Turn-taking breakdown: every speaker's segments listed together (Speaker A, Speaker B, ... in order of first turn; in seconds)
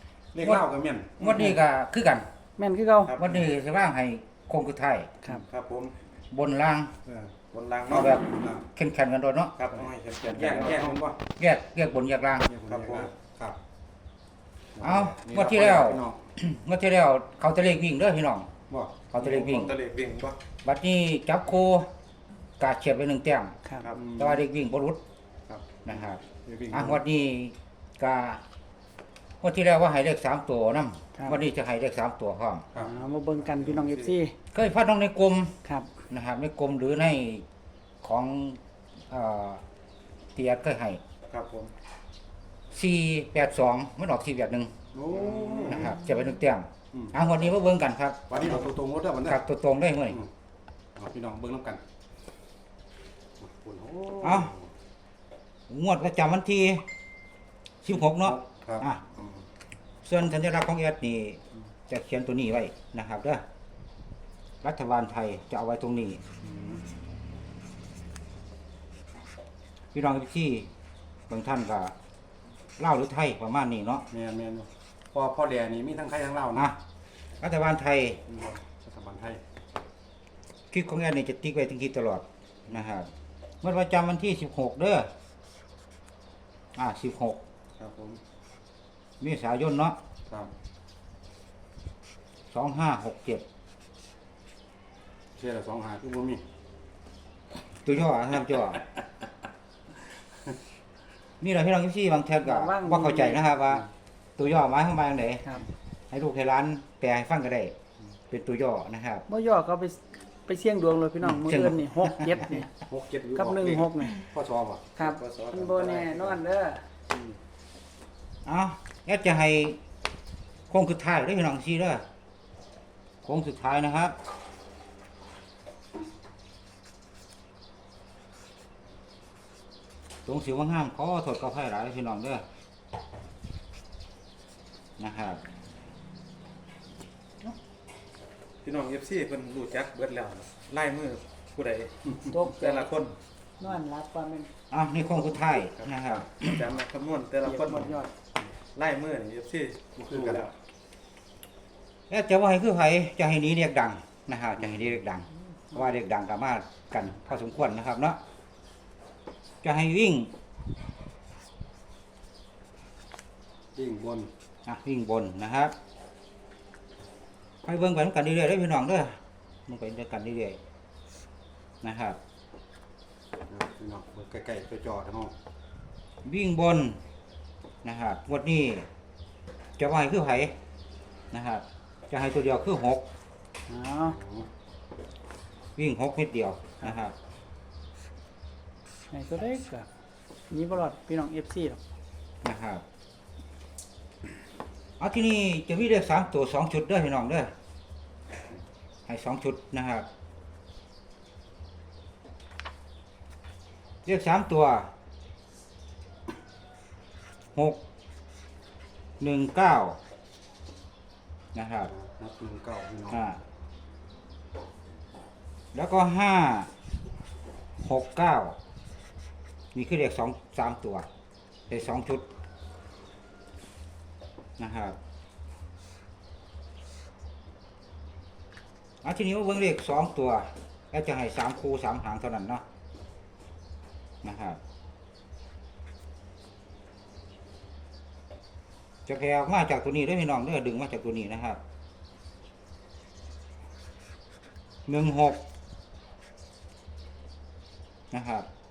Speaker A: 0.3-1.3, 7.1-7.3, 7.9-8.7, 9.7-11.2, 12.4-13.6, 14.8-16.2, 18.7-19.0, 24.0-24.4, 25.9-27.0, 44.9-45.9, 48.3-49.4, 51.0-51.8, 53.4-54.7, 58.2-59.5, 66.4-66.8, 74.1-76.7, 78.3-79.4, 87.8-88.2, 95.4-96.4, 112.9-114.8, 150.0-150.5, 163.8-164.3, 173.5-175.3, 184.1-184.5, 211.9-213.2
Speaker B: 0.4-0.7, 1.2-2.3, 3.2-5.1, 6.3-6.9, 7.9-9.5, 11.4-12.5, 14.8-18.5, 19.1-19.7, 20.6-21.9, 22.6-23.6, 24.2-25.0, 25.9-28.4, 29.4-32.7, 34.5-35.6, 36.1-37.5, 38.0-38.6, 39.1-39.6, 40.4-41.0, 42.7-44.8, 45.7-48.7, 49.2-50.2, 54.2-54.5, 55.7-56.8, 57.8-59.0, 60.0-63.4, 64.6-66.2, 69.9-70.7, 71.3-71.9, 72.8-74.0, 77.4-78.2, 80.7-83.1, 83.6-85.1, 86.8-87.4, 89.2-90.0, 92.5-93.4, 97.8-98.8, 101.4-105.5, 106.1-107.7, 108.3-109.2, 111.2-112.6, 118.5-119.8, 120.7-122.0, 123.2-124.2, 130.3-132.4, 135.0-135.4, 144.7-146.6, 152.1-158.2, 159.6-160.3, 164.7-165.7, 167.6-170.6, 171.8-172.2, 176.2-177.0, 177.8-178.9, 179.8-180.5, 181.3-183.1, 185.8-187.2, 192.4-192.8, 195.0-197.5, 199.1-200.1, 204.0-204.9, 207.6-207.8, 209.2-210.0, 211.5-211.9, 213.1-213.4, 215.7-216.7, 217.8-218.6, 219.7-221.1, 221.7-222.3, 224.6-225.0, 229.0-232.6, 234.2-234.6, 239.1-241.6, 244.9-245.4, 248.1-248.5
Speaker C: 1.3-1.6, 2.6-3.1, 23.6-23.9, 31.1-31.4, 32.8-34.3, 35.6-35.9, 102.4-103.4, 109.3-112.7, 113.3-114.2, 115.0-116.8, 142.2-142.9, 143.6-144.5, 147.4-148.1, 183.7-184.2, 189.1-189.9, 190.5-191.8
Speaker D: 3.1-3.5, 5.5-5.9, 7.5-8.2, 9.6-11.1, 12.7-13.1, 19.2-20.4, 33.7-34.1, 41.3-41.7, 45.1-46.0, 115.0-116.4, 138.6-143.2, 145.3-148.0, 148.7-150.5